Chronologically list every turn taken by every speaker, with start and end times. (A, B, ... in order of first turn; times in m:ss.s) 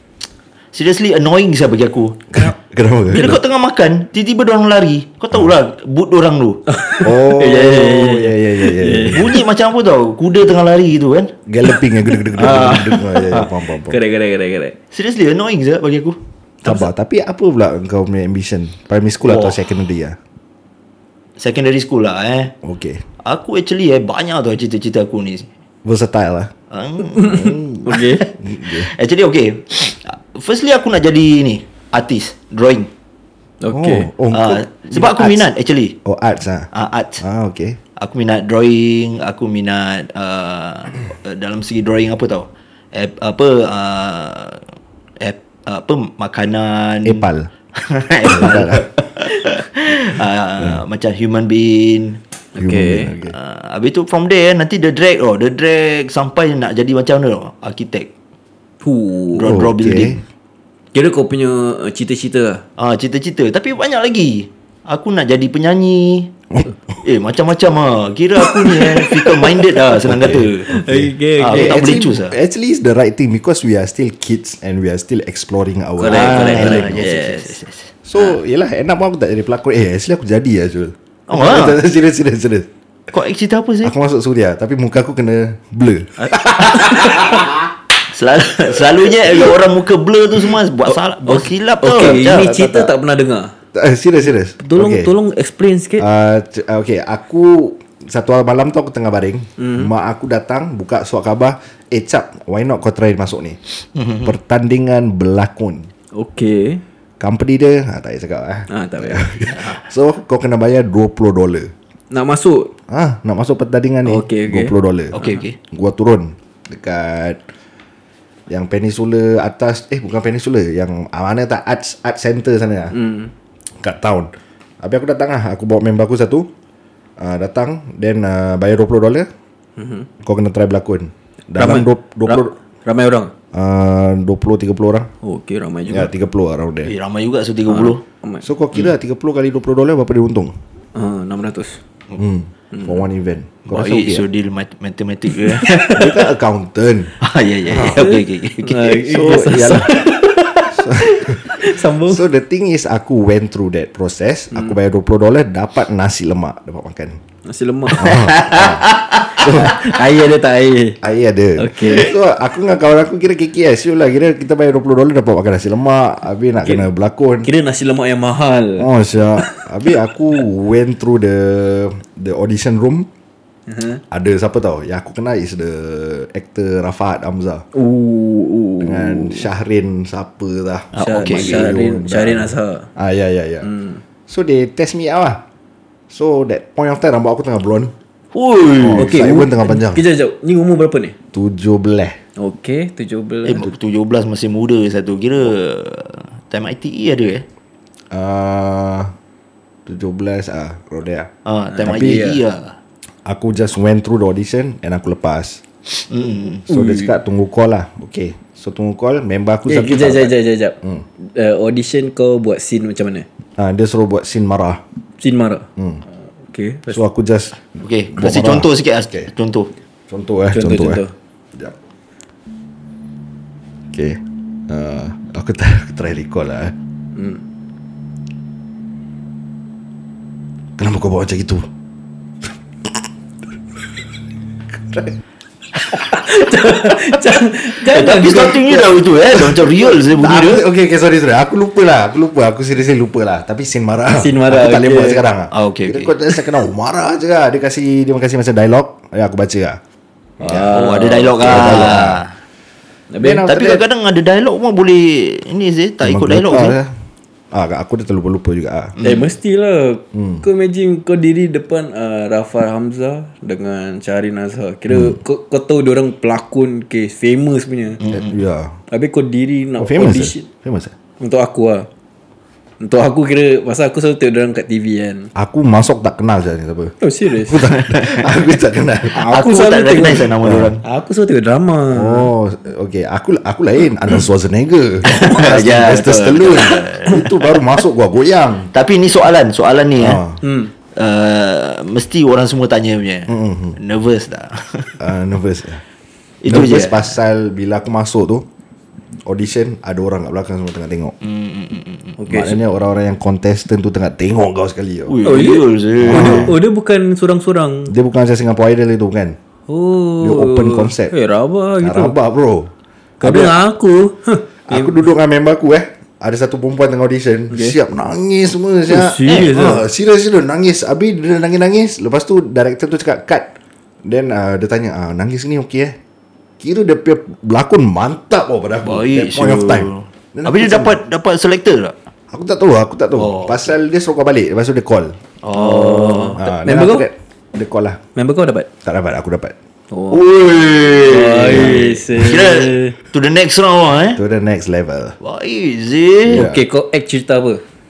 0:00.7-0:02.2 A
0:02.3-0:03.4 B
0:03.1-0:06.6 A
0:06.7-0:09.4 C
0:07.0-0:09.4 B
0:07.4-0:08.1 A
0:09.0-0:11.3 A
0:11.5-0:14.0 B
0:12.3-0:13.5 A
0:13.9-0:14.8 C
0:14.9-0:16.2 A
0:16.6-0:20.2 B
0:19.2-0:19.6 A
0:21.4-0:22.5 A
0:22.6-0:23.0 B
0:23.2-0:25.5 A
0:25.8-0:26.5 B
0:26.7-0:32.9 A
0:27.2-0:28.2 C
0:27.2-0:27.9 B
0:28.4-0:28.9 B
0:33.6-0:34.1 C
0:33.7-0:35.5 B
0:34.3-0:36.0 A
0:36.0-0:36.7 B
0:36.7-0:37.2 A
0:37.2-0:37.8 B
0:38.0-0:44.6 A
0:45.2-0:47.2 A
0:47.0-0:47.5 B
0:47.7-0:52.2 A
0:48.2-0:48.9 B
0:52.6-0:53.1 C
0:52.6-0:53.3 B
0:53.3-0:58.1 A
0:58.8-0:59.6 C
0:59.3-1:00.2 A
0:59.4-1:00.2 B
1:00.9-1:02.6 C
1:02.8-1:06.3 A
1:07.0-1:10.8 A
1:09.0-1:17.1 B
1:10.7-1:12.0 C
1:11.4-1:12.3 A
1:16.0-1:17.6 C
1:16.0-1:18.3 A
1:18.0-1:22.7 B
1:21.3-1:21.8 A
1:23.1-1:23.9 A
1:23.8-1:27.5 B
1:26.2-1:27.3 C
1:28.1-1:32.9 A
1:31.2-1:33.5 C
1:33.7-1:35.1 B
1:34.6-1:36.0 C
1:36.0-1:43.6 B
1:39.6-1:39.9 C
1:43.9-1:44.3 A
1:44.2-1:45.9 B
1:46.1-1:46.8 C
1:47.2-1:51.7 B
1:48.7-1:49.3 C
1:49.5-1:49.8 A
1:52.1-1:52.7 C
1:52.9-1:57.4 B
1:54.0-1:55.4 C
1:55.1-1:55.6 A
1:58.5-2:03.0 B
2:02.9-2:03.3 C
2:03.8-2:04.3 B
2:04.8-2:06.5 B
2:07.2-2:09.3 B
2:09.8-2:10.1 C
2:10.2-2:12.5 B
2:11.6-2:13.3 C
2:13.5-2:15.1 B
2:15.2-2:16.1 C
2:15.9-2:16.9 B
2:16.8-2:18.0 A
2:17.7-2:18.4 C
2:18.4-2:20.5 B
2:20.9-2:21.8 C
2:22.2-2:24.2 B
2:22.7-2:23.0 C
2:23.7-2:25.9 A
2:25.5-2:26.1 C
2:25.9-2:27.1 B
2:27.2-2:29.3 A
2:27.7-2:28.1 B
2:27.8-2:32.2 C
2:29.0-2:30.0 B
2:30.7-2:37.2 B
2:37.4-2:38.3 C
2:37.9-2:39.6 A
2:38.0-2:38.9 B
2:39.4-2:39.8 B
2:39.4-2:41.0 C
2:41.0-2:47.5 B
2:41.6-2:42.1 C
2:47.4-2:48.9 C
2:48.8-2:53.1 B
2:49.4-2:49.6 C
2:53.7-2:54.0 C
2:54.1-2:57.6 B
2:57.7-2:59.5 C
2:58.8-3:03.7 B
3:00.9-3:01.7 A
3:01.0-3:02.9 C
3:03.6-3:04.0 C
3:04.3-3:05.4 B
3:06.1-3:07.9 B
3:08.3-3:09.1 A
3:08.8-3:10.0 B
3:09.0-3:11.1 C
3:11.3-3:12.2 B
3:12.4-3:13.6 C
3:13.4-3:17.4 A
3:18.1-3:19.1 B
3:19.8-3:21.3 B
3:21.4-3:22.8 A
3:21.7-3:22.4 C
3:21.8-3:22.3 B
3:23.2-3:25.6 B
3:25.9-3:26.6 A
3:26.7-3:31.0 B
3:26.7-3:27.1 C
3:29.7-3:33.2 C
3:33.6-3:34.8 B
3:35.2-3:35.7 C
3:35.8-3:36.0 B
3:36.4-3:37.0 C
3:36.9-3:37.6 B
3:37.8-3:39.7 A
3:38.1-3:39.3 B
3:40.1-3:41.0 B
3:40.5-3:41.1 C
3:43.9-3:46.7 B
3:47.1-3:47.4 C
3:50.8-3:51.6 B
3:54.7-3:55.2 B
3:55.9-3:58.8 C
3:57.9-4:00.6 A
3:59.3-4:09.8 B
4:04.1-4:05.2 C
4:05.5-4:06.2 A
4:10.4-4:10.7 B
4:10.4-4:11.9 C
4:10.7-4:12.3 A
4:11.4-4:12.2 B
4:13.1-4:13.4 C
4:13.2-4:13.8 B
4:13.5-4:16.8 A
4:16.0-4:16.9 B
4:17.5-4:19.0 B
4:19.0-4:28.0 C
4:20.1-4:20.4 B
4:28.0-4:28.3 A
4:28.1-4:28.7 B
4:28.9-4:30.4 C
4:29.8-4:30.9 B
4:31.2-4:31.9 C
4:32.8-4:35.3 C
4:35.4-4:36.9 B
4:37.0-4:37.6 C
4:37.4-4:39.2 B
4:37.7-4:38.3 A
4:39.1-4:42.3 C
4:39.2-4:40.8 A
4:40.4-4:40.7 B
4:41.9-4:48.7 B
4:45.0-4:47.6 A
4:48.7-4:50.2 A
4:50.0-4:50.4 B
4:50.4-4:50.7 C
4:51.0-4:55.0 A
4:53.3-4:53.8 B
4:55.0-4:55.8 B
4:56.4-4:57.1 A
4:56.4-4:58.4 B
4:59.2-5:01.2 B
5:01.2-5:02.2 A
5:02.2-5:02.6 C
5:02.3-5:05.2 B
5:05.1-5:06.5 A
5:05.2-5:07.9 C
5:06.0-5:06.6 B
5:07.9-5:09.4 B
5:09.7-5:12.1 C
5:10.2-5:11.1 B
5:11.8-5:13.6 B
5:13.2-5:15.0 C
5:14.7-5:23.5 B
5:18.9-5:19.8 C
5:19.3-5:19.7 A
5:24.0-5:26.0 B
5:26.6-5:30.9 B
5:28.8-5:31.9 A
5:32.3-5:35.2 B
5:33.1-5:33.7 A
5:35.4-5:36.4 A
5:35.5-5:37.1 C
5:36.4-5:38.0 B
5:38.2-5:38.7 C
5:38.8-5:39.5 B
5:39.9-5:40.2 C
5:40.1-5:44.2 A
5:41.0-5:42.9 C
5:44.1-5:45.2 B
5:45.2-5:46.4 A
5:46.3-5:46.6 B
5:46.3-5:47.6 C